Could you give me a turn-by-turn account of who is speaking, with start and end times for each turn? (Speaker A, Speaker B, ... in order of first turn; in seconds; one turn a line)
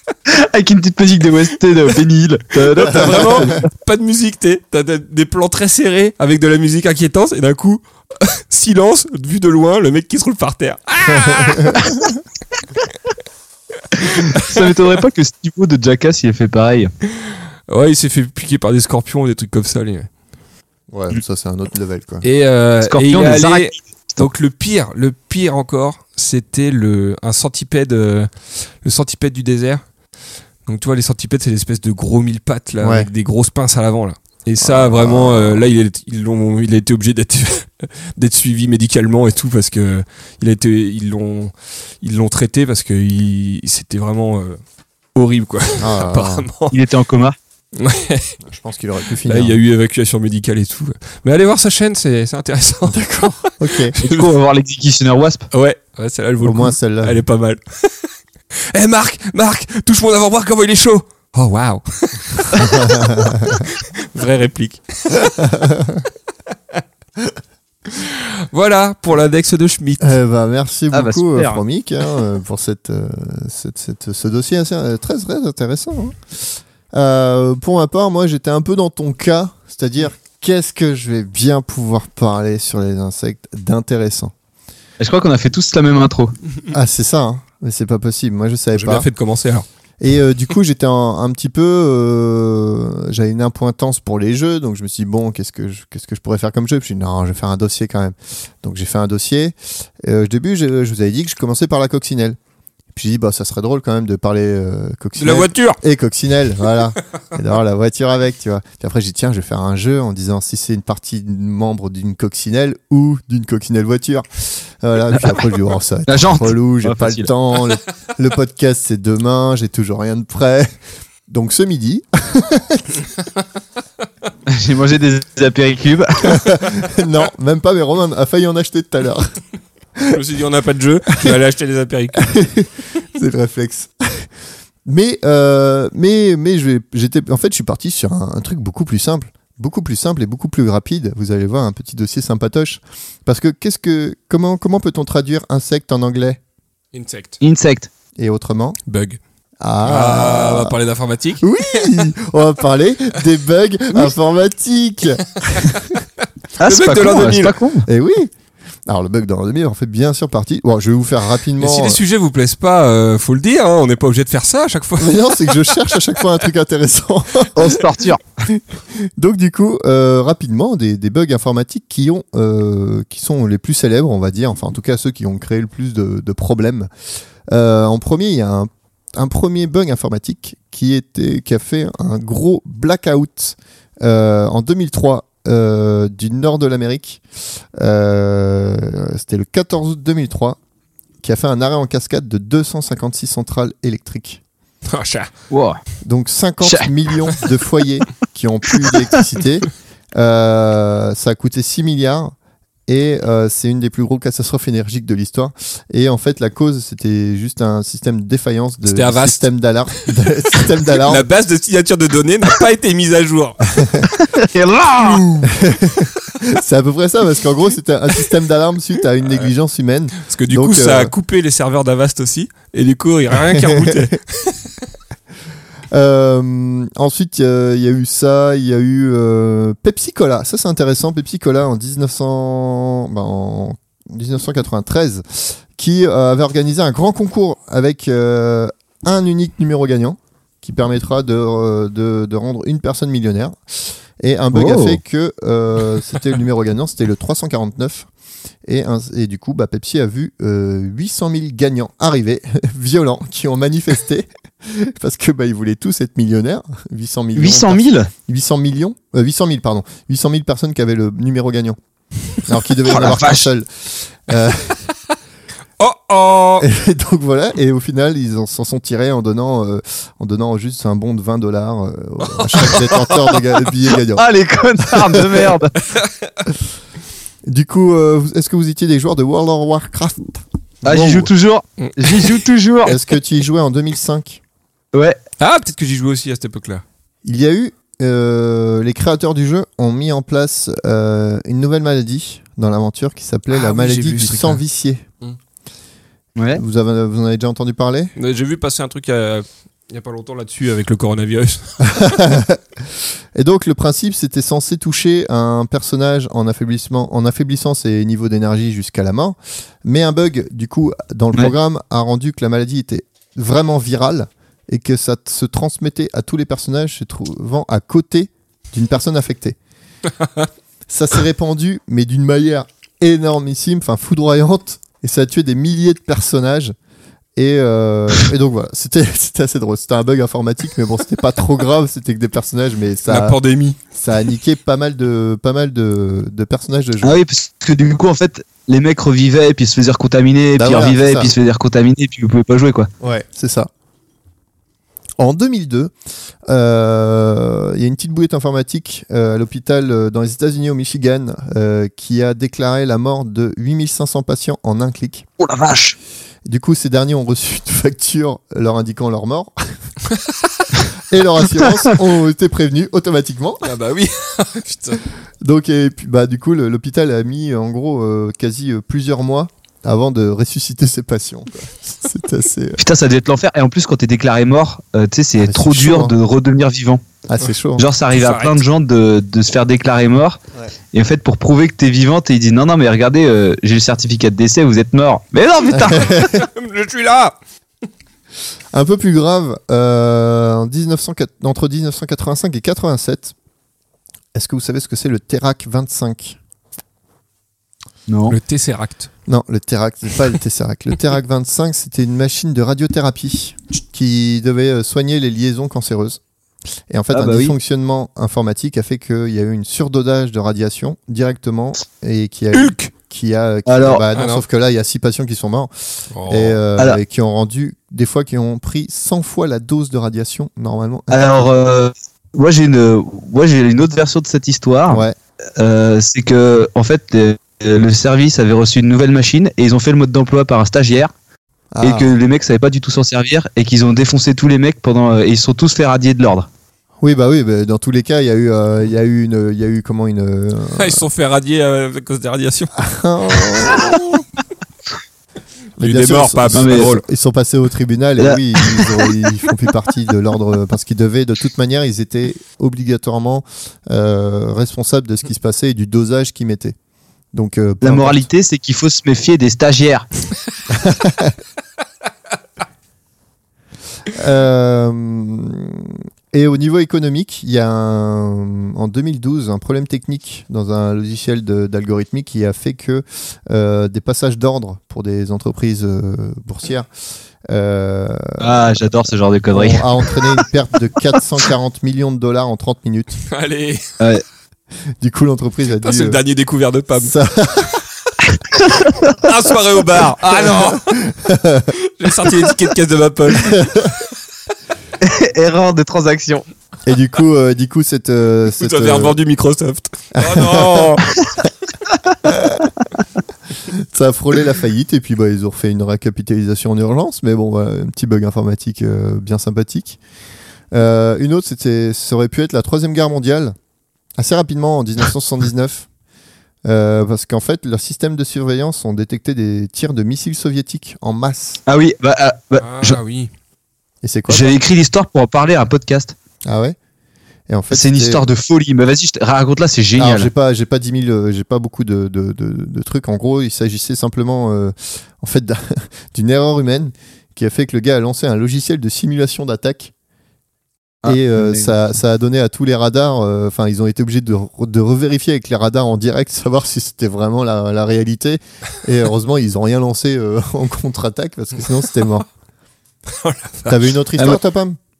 Speaker A: 0.3-3.6
Speaker B: 2.6-12.0
Speaker C: 11.2-11.8
Speaker B: 14.0-14.7
Speaker A: 14.3-16.9
Speaker B: 17.2-20.1
Speaker C: 20.9-22.2
Speaker B: 22.2-29.8
Speaker A: 22.8-24.3
Speaker B: 30.7-44.6
Speaker C: 32.8-33.1
Speaker C: 34.6-35.6
Speaker B: 45.1-46.8
Speaker C: 45.8-46.5
Speaker A: 46.7-47.4
Speaker B: 47.8-48.4
Speaker C: 48.4-49.6
Speaker B: 49.2-54.3
Speaker C: 52.9-54.0
Speaker A: 54.0-55.5
Speaker B: 55.5-58.1
Speaker C: 56.4-57.2
Speaker B: 58.7-65.4
Speaker C: 62.6-63.6
Speaker C: 65.4-66.0
Speaker B: 67.9-70.1
Speaker C: 70.0-76.2
Speaker A: 70.9-71.6
Speaker C: 76.9-84.3
Speaker A: 85.0-86.3
Speaker C: 86.7-89.1
Speaker B: 88.8-89.7
Speaker C: 90.0-102.4
Speaker C: 102.9-120.7
Speaker B: 105.2-105.8
Speaker A: 116.1-117.3
Speaker C: 121.3-123.0
Speaker A: 124.5-126.6
Speaker C: 126.2-129.3
Speaker B: 130.1-132.4
Speaker C: 132.2-134.3
Speaker C: 134.9-146.4
Speaker B: 146.9-147.4
Speaker A: 147.4-147.9
Speaker C: 148.2-148.8
Speaker B: 148.9-149.2
Speaker C: 149.6-150.8
Speaker B: 149.8-151.4
Speaker C: 151.4-156.0
Speaker A: 156.6-157.9
Speaker B: 156.6-157.6
Speaker C: 157.9-158.3
Speaker C: 158.9-162.0
Speaker B: 161.6-165.8
Speaker C: 165.0-167.8
Speaker A: 167.6-168.2
Speaker C: 168.4-176.9
Speaker C: 177.5-187.2
Speaker C: 187.8-190.6
Speaker C: 191.2-194.4
Speaker B: 194.9-195.3
Speaker A: 195.5-195.8
Speaker C: 196.0-202.3
Speaker A: 196.6-196.9
Speaker C: 202.9-211.2
Speaker B: 208.8-210.1
Speaker B: 210.9-214.1
Speaker C: 213.8-214.1
Speaker A: 214.2-215.4
Speaker C: 215.4-221.1
Speaker B: 220.2-224.6
Speaker C: 223.6-224.1
Speaker C: 225.9-243.6
Speaker C: 244.2-248.1
Speaker A: 244.5-245.0
Speaker C: 248.7-261.8
Speaker A: 257.4-258.1
Speaker C: 262.4-263.7
Speaker A: 262.9-263.5
Speaker C: 264.3-264.8
Speaker B: 265.8-266.7
Speaker C: 266.6-274.3
Speaker B: 272.3-273.4
Speaker A: 274.2-275.7
Speaker C: 274.8-275.6
Speaker B: 275.9-276.4
Speaker C: 277.5-281.3
Speaker A: 280.9-283.0
Speaker B: 281.8-282.4
Speaker C: 282.9-284.4
Speaker A: 284.9-285.2
Speaker B: 285.4-286.8
Speaker C: 287.2-295.1
Speaker B: 293.8-294.5
Speaker A: 296.4-296.6
Speaker C: 296.5-298.1
Speaker B: 298.2-301.8
Speaker C: 301.8-302.8
Speaker C: 303.4-319.6
Speaker C: 320.9-326.8
Speaker C: 327.4-333.4
Speaker B: 333.1-333.8
Speaker C: 334.0-337.2
Speaker A: 337.0-342.9
Speaker C: 340.6-341.3
Speaker C: 343.0-343.7
Speaker C: 345.2-345.9
Speaker C: 346.5-355.2
Speaker A: 355.4-356.0
Speaker C: 356.4-359.8
Speaker B: 360.1-360.7
Speaker C: 361.1-363.7
Speaker B: 363.6-365.0
Speaker C: 365.4-372.8
Speaker A: 372.8-377.0
Speaker C: 375.4-376.1
Speaker C: 377.3-377.9
Speaker A: 377.8-380.4
Speaker B: 378.1-378.6
Speaker A: 380.9-386.2
Speaker C: 385.7-386.4
Speaker B: 386.1-387.4
Speaker C: 388.7-393.3
Speaker C: 394.3-396.4
Speaker A: 398.1-398.4
Speaker B: 398.3-399.1
Speaker C: 399.3-406.2
Speaker C: 406.9-421.5
Speaker A: 407.1-407.6
Speaker B: 412.5-412.9
Speaker A: 413.7-414.0
Speaker B: 414.1-414.4
Speaker B: 416.1-416.6
Speaker A: 421.1-425.1
Speaker C: 424.9-425.2
Speaker A: 425.6-431.1
Speaker C: 431.7-432.1
Speaker A: 431.8-436.5
Speaker C: 437.0-441.1
Speaker B: 440.8-442.8
Speaker C: 442.8-444.2
Speaker B: 443.5-443.8
Speaker C: 445.8-456.8
Speaker B: 445.8-447.0
Speaker A: 446.6-446.9
Speaker A: 448.2-449.1
Speaker C: 457.3-458.2
Speaker A: 457.8-460.1
Speaker C: 460.7-461.4
Speaker C: 464.1-476.9
Speaker C: 477.5-478.6
Speaker A: 478.4-480.2
Speaker C: 479.5-483.2
Speaker B: 483.3-483.8
Speaker C: 485.0-486.2
Speaker B: 485.8-487.1
Speaker C: 487.0-487.8
Speaker B: 488.8-490.9
Speaker C: 490.6-491.7
Speaker B: 491.8-493.9
Speaker C: 493.4-494.0
Speaker A: 495.0-496.5
Speaker C: 496.9-499.2
Speaker B: 498.6-501.2
Speaker C: 500.2-501.5
Speaker C: 502.2-502.7
Speaker C: 503.7-510.0
Speaker C: 510.7-513.5
Speaker C: 514.2-515.9
Speaker C: 516.7-521.6
Speaker A: 521.7-523.0
Speaker B: 522.6-523.3
Speaker C: 524.0-524.6
Speaker A: 524.3-526.1
Speaker C: 526.5-526.8
Speaker C: 527.5-528.2
Speaker A: 527.7-530.3
Speaker C: 530.0-539.9
Speaker A: 541.0-541.7
Speaker C: 541.0-552.3
Speaker B: 553.1-553.9
Speaker C: 553.7-554.8